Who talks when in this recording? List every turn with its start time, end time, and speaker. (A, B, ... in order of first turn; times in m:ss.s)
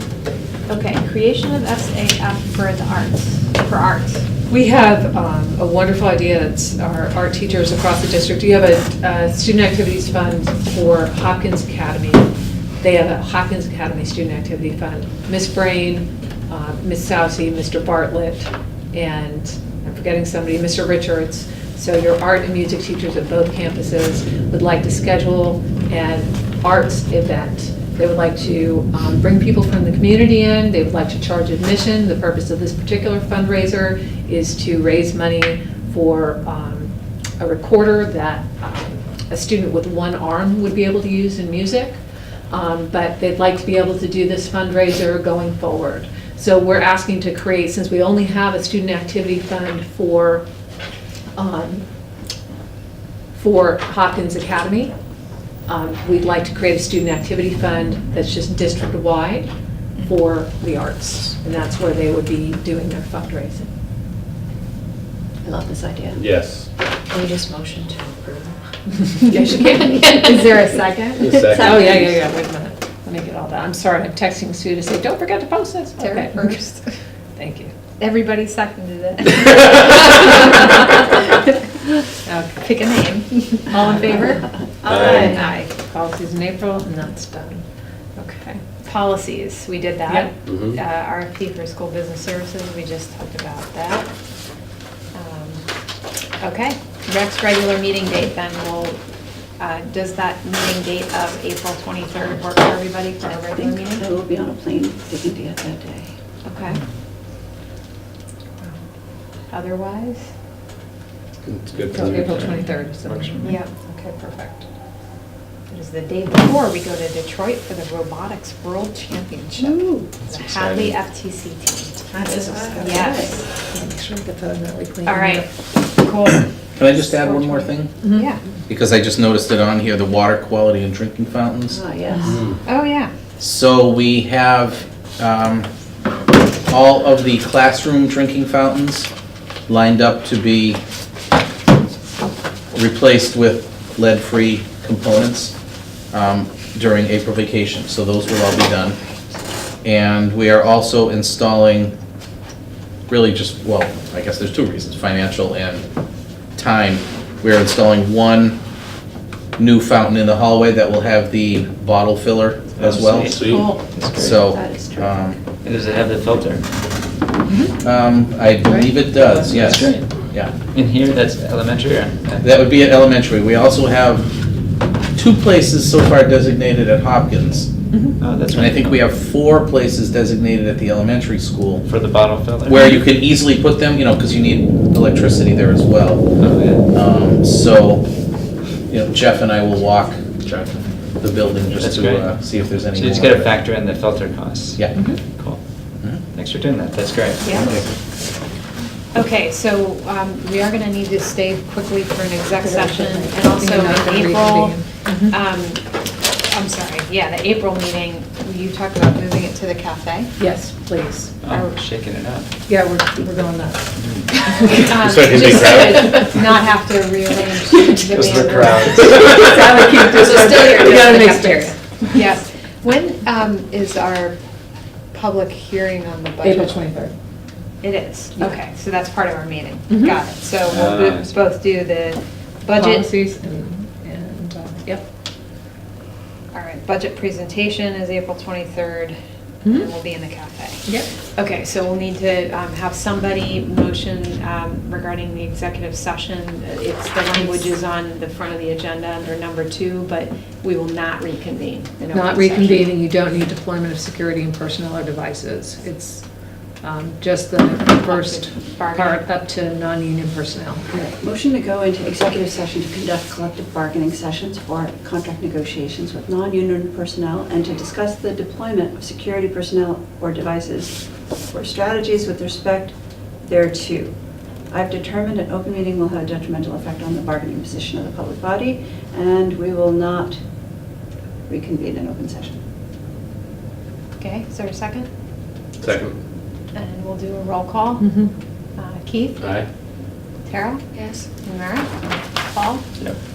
0:00.7-0:04.4 A
0:04.4-0:12.3 B
0:12.8-0:42.0 B
0:42.5-0:50.4 B
0:51.3-0:51.8 B
0:53.3-0:54.9 B
0:55.7-1:03.7 B
1:05.4-1:06.2 C
1:06.2-1:06.7 D
1:07.1-1:07.5 A
1:07.4-1:08.4 C
1:09.1-1:12.2 A
1:09.2-1:09.9 B
1:11.2-1:11.8 D
1:11.6-1:16.7 B
1:16.0-1:16.9 A
1:17.4-1:17.7 B
1:18.0-1:22.0 A
1:22.2-1:22.7 B
1:22.6-1:25.8 A
1:23.8-1:24.4 B
1:24.8-1:25.5 C
1:24.9-1:25.3 D
1:25.3-1:27.6 B
1:28.2-1:34.1 A
1:30.4-1:30.8 D
1:35.1-1:35.6 A
1:36.4-1:39.0 A
1:39.6-1:44.0 A
1:43.3-1:46.1 C
1:46.4-1:46.8 A
1:49.5-1:50.3 A
1:51.4-1:52.6 D
1:51.9-1:54.2 B
1:52.1-1:53.5 E
1:53.4-1:54.6 A
1:55.7-2:03.5 A
1:59.7-2:00.0 C
2:00.2-2:00.9 E
2:02.2-2:03.5 C
2:03.6-2:05.5 B
2:05.0-2:08.4 A
2:06.8-2:08.1 F
2:08.0-2:08.3 B
2:08.7-2:11.8 F
2:11.7-2:12.4 C
2:12.3-2:12.6 D
2:12.6-2:13.1 A
2:13.4-2:15.7 F
2:16.7-2:19.1 F
2:19.7-2:20.8 F
2:22.7-2:25.5 F
2:26.1-2:29.0 F
2:29.8-2:31.9 F
2:33.1-2:35.8 F
2:36.5-2:38.6 F
2:39.6-2:43.4 F
2:42.8-2:44.4 E
2:43.3-2:43.7 D
2:43.5-2:43.8 C
2:44.1-2:45.4 F
2:44.4-2:45.4 C
2:45.6-2:46.6 E
2:47.8-2:50.5 F
2:48.7-2:49.4 B
2:49.4-2:50.1 E
2:50.7-2:52.5 E
2:52.4-2:54.3 F
2:55.1-2:57.7 F
2:58.2-2:59.0 E
2:58.5-3:01.8 F
3:01.8-3:02.9 E
3:02.6-3:06.2 F
3:06.4-3:06.8 E
3:06.9-3:08.0 F
3:08.9-3:13.5 F
3:11.7-3:15.6 E
3:14.9-3:15.2 B
3:16.3-3:17.8 E
3:17.4-3:17.7 A
3:17.5-3:17.8 F
3:19.1-3:25.8 A
3:22.5-3:25.4 B
3:26.4-3:30.4 A
3:30.4-3:31.4 B
3:31.4-3:32.5 E
3:32.7-3:34.9 B
3:34.0-3:34.3 E
3:34.8-3:39.1 A
3:34.9-3:36.5 D
3:35.4-3:36.2 B
3:37.7-3:38.0 B
3:38.0-3:39.9 D
3:38.2-3:38.9 E
3:39.2-3:42.2 B
3:40.1-3:44.4 A
3:45.1-3:46.8 A
3:46.4-3:47.1 B
3:47.8-3:53.2 A
3:49.9-3:50.2 B
3:50.7-3:51.3 E
3:52.7-3:55.0 B
3:56.5-3:59.1 A
3:59.6-3:59.9 B
3:59.6-4:13.0 A
4:07.3-4:07.7 B
4:12.1-4:16.2 B
4:16.8-4:20.8 B
4:17.8-4:19.4 A
4:20.9-4:32.9 C
4:33.5-4:34.1 C
4:34.7-4:40.4 C
4:41.5-4:42.6 C
4:44.2-4:45.1 A
4:45.8-4:46.2 D
4:46.7-4:48.1 A
4:48.0-4:48.3 B
4:48.8-4:49.4 A
4:49.4-4:49.7 D
4:50.5-4:52.9 A
4:51.0-4:51.2 C